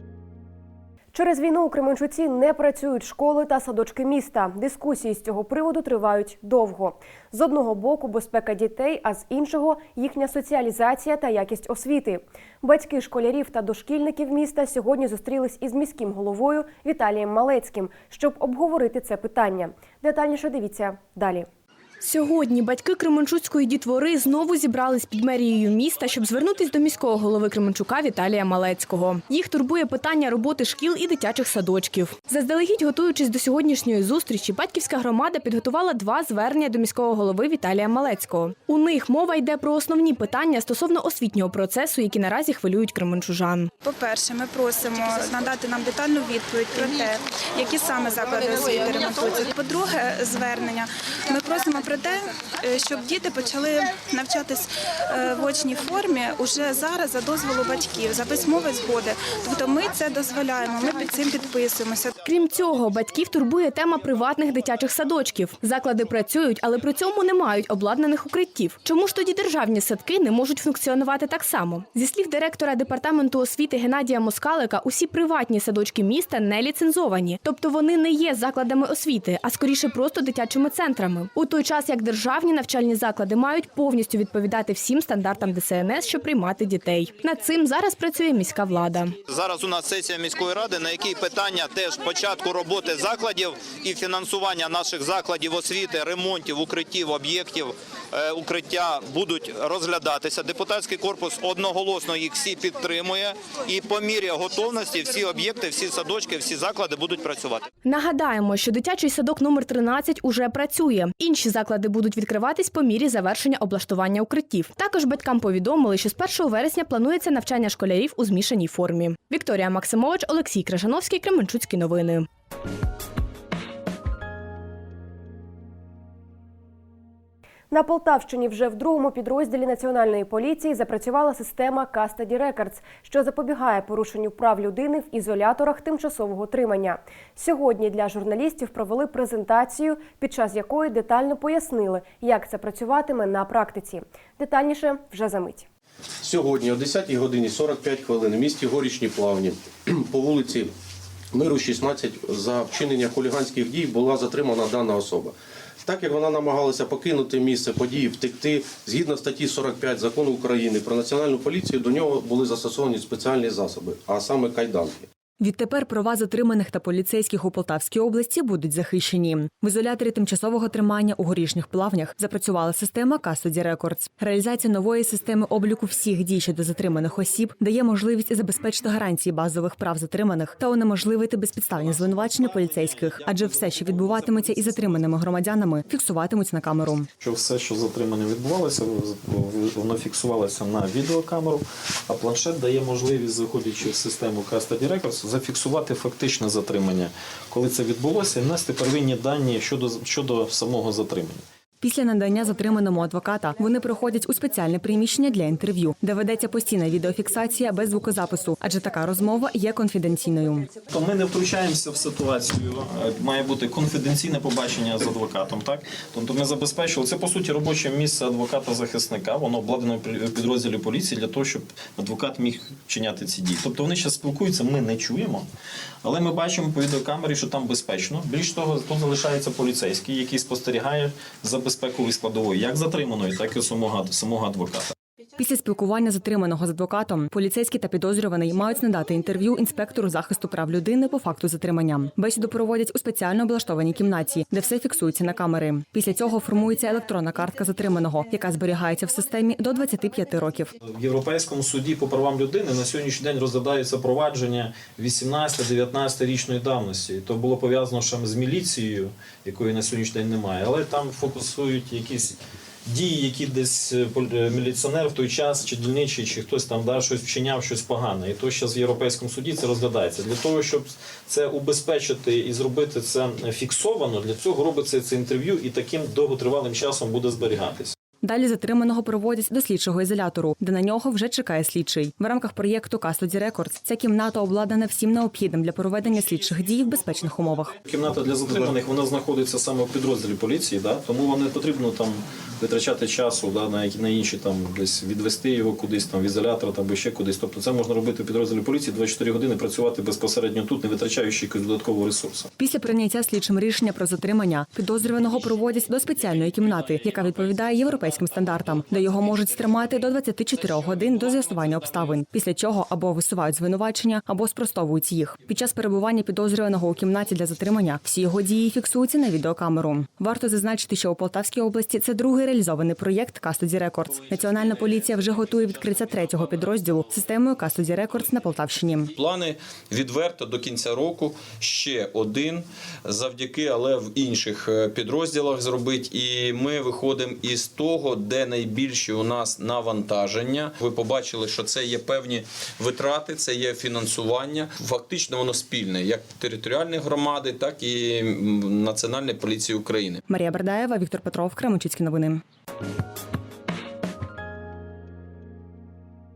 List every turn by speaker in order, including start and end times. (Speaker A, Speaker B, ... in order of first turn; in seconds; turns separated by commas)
Speaker A: 1.1-21.5, Speaker B: 22.0-43.8, Speaker C: 43.8-62.1, Speaker B: 48.5-49.5, Speaker B: 62.1-89.2, Speaker D: 89.3-107.6, Speaker B: 107.8-122.3, Speaker A: 127.7-145.7, Speaker E: 146.2-150.7, Speaker E: 151.3-155.3, Speaker E: 155.9-165.1, Speaker F: 165.4-187.1, Speaker G: 182.1-185.1, Speaker G: 187.2-201.4, Speaker F: 201.8-210.7, Speaker G: 210.9-225.5, Speaker G: 226.0-234.9, Speaker F: 235.4-250.7, Speaker G: 250.8-277.9, Speaker F: 278.2-287.7, Speaker G: 287.9-302.5, Speaker F: 302.6-329.1, Speaker H: 329.2-350.2, Speaker F: 350.3-352.4